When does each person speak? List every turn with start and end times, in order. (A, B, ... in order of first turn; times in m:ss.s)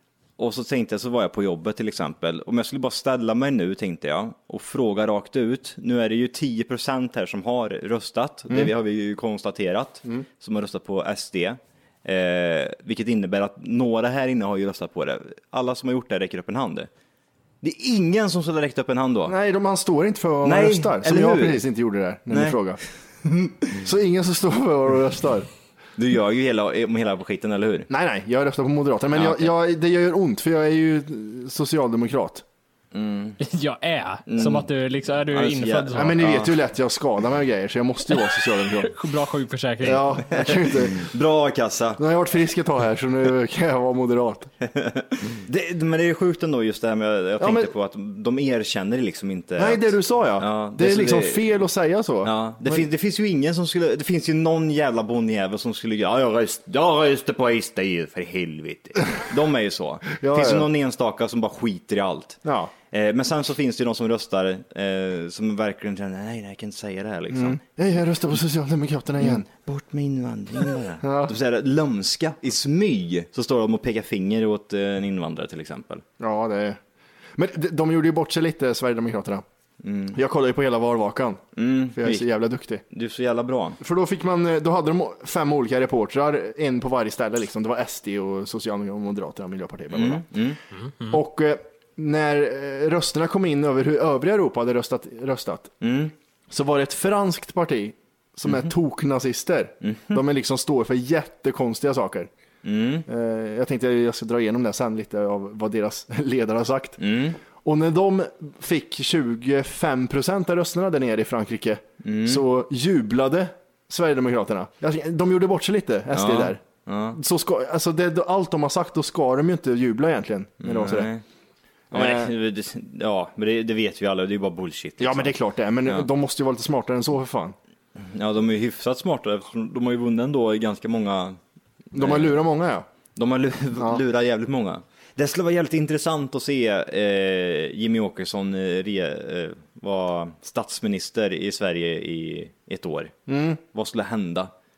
0:00.4-0:16.9 A
0:17.6-0:19.3 A
0:19.2-0:22.8 B
0:20.4-0:21.6 A
0:22.3-0:22.6 A
0:23.4-0:23.7 A
0:23.8-0:25.5 B
0:26.0-0:27.9 A
0:27.9-0:32.4 B
0:29.1-0:29.5 A
0:32.9-0:33.4 A
0:33.4-0:36.1 C
0:34.3-0:34.7 A
0:35.3-0:36.6 A
0:35.9-0:38.9 B
0:38.8-0:40.2 C
0:39.8-0:41.1 B
0:40.4-0:42.0 A
0:42.0-0:44.5 B
0:44.8-0:51.6 A
0:47.4-0:47.7 B
0:49.6-0:52.8 B
0:52.2-1:02.4 A
1:00.1-1:00.7 B
1:02.4-1:02.7 B
1:02.9-1:07.6 A
1:07.3-1:09.5 B
1:09.2-1:16.0 A
1:11.0-1:11.3 B
1:16.2-1:16.8 B
1:17.4-1:19.4 B
1:19.8-1:20.2 A
1:20.1-1:21.4 B
1:21.6-1:22.2 A
1:21.9-1:22.8 B
1:22.9-1:23.8 A
1:23.8-1:30.2 B
1:29.9-1:30.6 A
1:31.1-1:35.7 B
1:35.8-1:36.1 A
1:36.5-1:42.3 B
1:39.8-1:40.2 A
1:42.6-1:43.0 A
1:43.1-1:47.0 B
1:47.0-1:47.4 A
1:47.6-1:56.6 B
1:52.0-1:52.4 A
1:56.1-1:57.2 A
1:57.1-2:01.1 B
2:00.6-2:01.2 A
2:01.9-2:02.3 B
2:01.9-2:05.3 A
2:05.0-2:07.6 B
2:08.0-2:11.4 A
2:11.9-2:12.4 A
2:11.9-2:12.9 B
2:13.2-2:23.1 A
2:13.8-2:14.0 B
2:23.3-2:23.6 B
2:23.7-2:24.5 A